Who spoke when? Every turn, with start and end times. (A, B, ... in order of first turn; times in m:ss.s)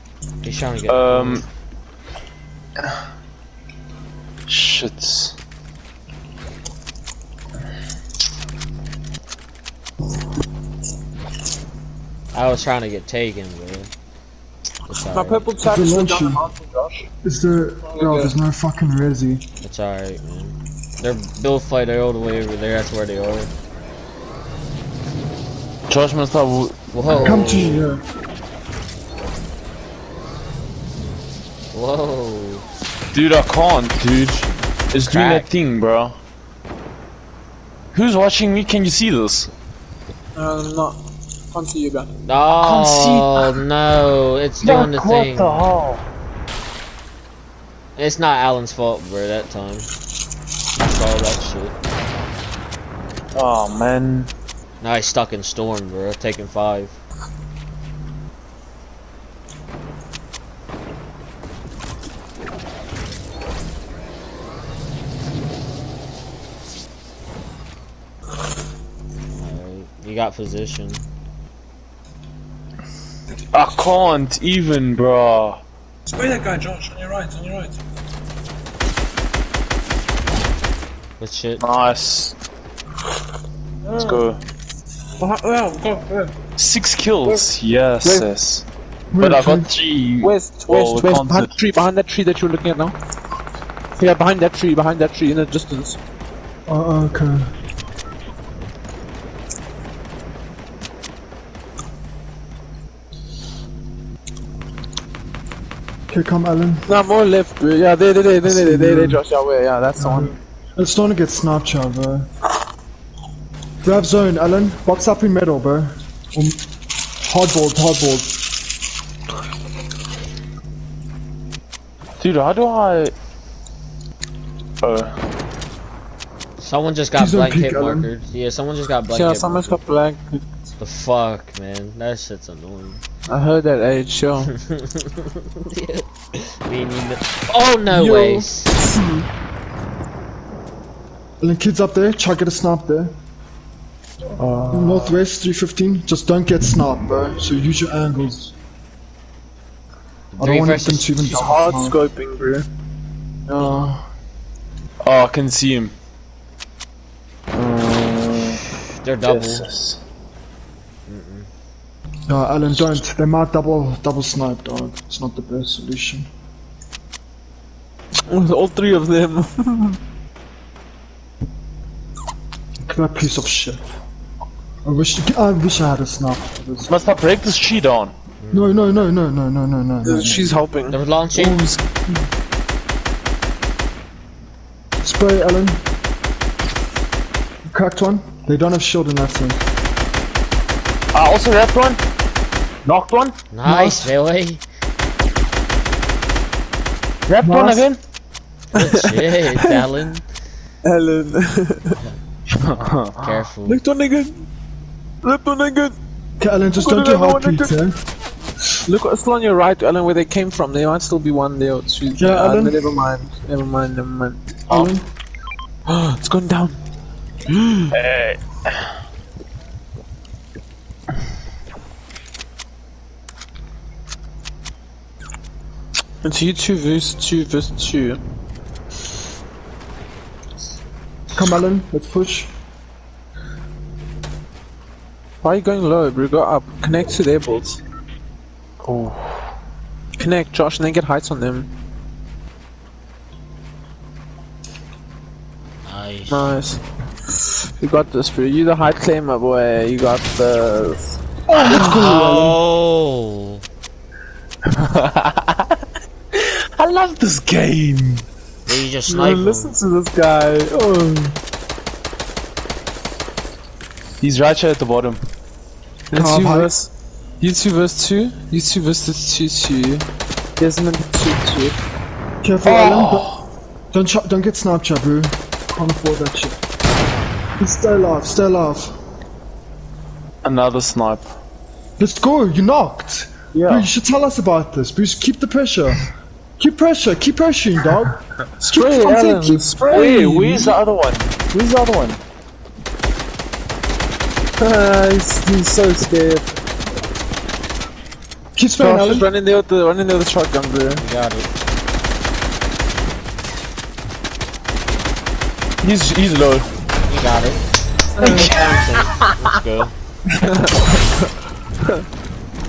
0:00.4-0:01.4 A
0:00.9-0:01.4 B
0:04.5-0:05.4 B
0:12.3-0:13.9 A
0:14.9-0:15.5 A
0:15.1-0:17.1 C
0:15.6-0:16.4 D
0:17.2-0:19.4 D
0:17.9-0:18.3 C
0:19.6-0:23.5 A
0:25.9-0:27.4 B
0:26.9-0:27.8 A
0:27.1-0:28.0 D
0:31.7-0:32.6 A
0:33.1-0:36.2 B
0:35.0-0:35.5 A
0:37.9-0:39.5 B
0:40.3-0:41.0 C
0:41.5-0:42.1 C
0:42.2-0:45.7 A
0:42.5-0:43.5 B
0:44.6-0:46.0 B
0:48.0-0:49.9 A
0:50.8-0:51.7 A
0:53.3-0:54.3 B
0:54.8-0:57.0 A
1:09.3-1:11.0 A
1:13.5-1:15.6 B
1:16.0-1:17.8 C
1:21.2-1:21.6 A
1:21.6-1:22.3 B
1:23.8-1:24.2 C
1:24.0-1:24.4 B
1:25.2-1:26.3 C
1:26.6-1:28.6 B
1:27.2-1:27.5 C
1:28.0-1:28.3 C
1:29.1-1:29.7 D
1:29.2-1:31.5 B
1:30.2-1:32.9 C
1:34.0-1:36.0 C
1:36.7-1:37.5 D
1:46.1-1:46.9 D
1:46.9-1:50.3 C
1:48.4-1:49.2 D
1:50.0-1:52.3 D
1:53.8-1:56.6 D
1:57.2-1:58.3 D
2:02.2-2:03.1 B
2:04.8-2:05.1 B
2:06.6-2:09.8 A
2:07.1-2:08.1 D
2:09.1-2:10.4 C
2:10.8-2:13.0 A
2:13.3-2:14.5 C
2:14.6-2:18.7 A
2:17.9-2:19.2 C
2:21.4-2:23.2 D
2:24.4-2:25.2 C
2:24.7-2:28.5 D
2:30.3-2:31.3 A
2:30.4-2:32.0 D
2:31.3-2:32.7 C
2:33.5-2:34.0 D
2:35.0-2:35.9 B
2:37.5-2:38.6 B
2:39.0-2:39.7 A
2:39.2-2:40.0 B
2:41.0-2:41.5 A
2:42.3-2:46.3 D
2:48.3-2:50.0 C
2:52.8-2:53.8 D
2:54.8-2:56.9 D
2:56.9-2:58.1 B
2:58.4-2:59.1 A
2:58.5-3:00.6 D
3:00.0-3:01.0 C
3:00.9-3:01.6 A
3:01.3-3:01.8 D
3:05.0-3:05.8 D
3:07.6-3:09.6 D
3:11.1-3:12.0 B
3:12.8-3:13.4 B
3:13.5-3:14.6 A
3:13.6-3:14.1 D
3:17.3-3:18.0 B
3:17.4-3:17.9 D
3:18.7-3:20.2 A
3:18.8-3:19.9 C
3:20.8-3:22.0 C
3:22.5-3:23.3 B
3:23.2-3:23.8 A
3:23.6-3:24.4 C
3:25.2-3:26.0 C
3:26.4-3:28.0 D
3:26.7-3:27.7 C
3:28.8-3:34.4 C
3:32.2-3:32.8 D
3:34.7-3:35.1 D
3:35.9-3:36.8 C
3:37.5-3:37.9 C
3:37.9-3:38.7 B
3:46.2-3:48.2 C
3:51.3-3:52.5 D
3:55.4-3:57.8 C
3:58.8-3:59.4 B
4:00.2-4:01.7 C
4:05.8-4:06.6 A
4:06.3-4:06.8 C
4:07.8-4:11.2 C
4:11.5-4:12.6 D
4:11.5-4:13.6 A
4:14.8-4:15.6 B
4:16.3-4:18.2 B
4:18.6-4:19.8 A
4:19.1-4:21.4 C
4:24.2-4:25.2 B
4:26.1-4:30.0 C
4:26.1-4:26.7 D
4:30.6-4:31.8 C
4:32.4-4:33.3 D
4:32.6-4:33.4 B
4:33.9-4:36.6 D
4:37.6-4:38.9 D
4:40.4-4:41.3 B
4:42.0-4:46.0 D
4:43.5-4:43.9 B
4:46.6-4:49.7 D
4:48.6-4:50.8 C
4:49.9-4:52.2 B
4:54.6-4:56.6 C
4:58.6-4:59.3 D
4:58.8-5:01.0 C
5:01.0-5:01.5 A
5:05.8-5:06.7 B
5:07.1-5:07.6 A
5:08.2-5:08.6 C
5:08.2-5:09.9 A
5:08.2-5:09.0 B
5:10.4-5:11.0 C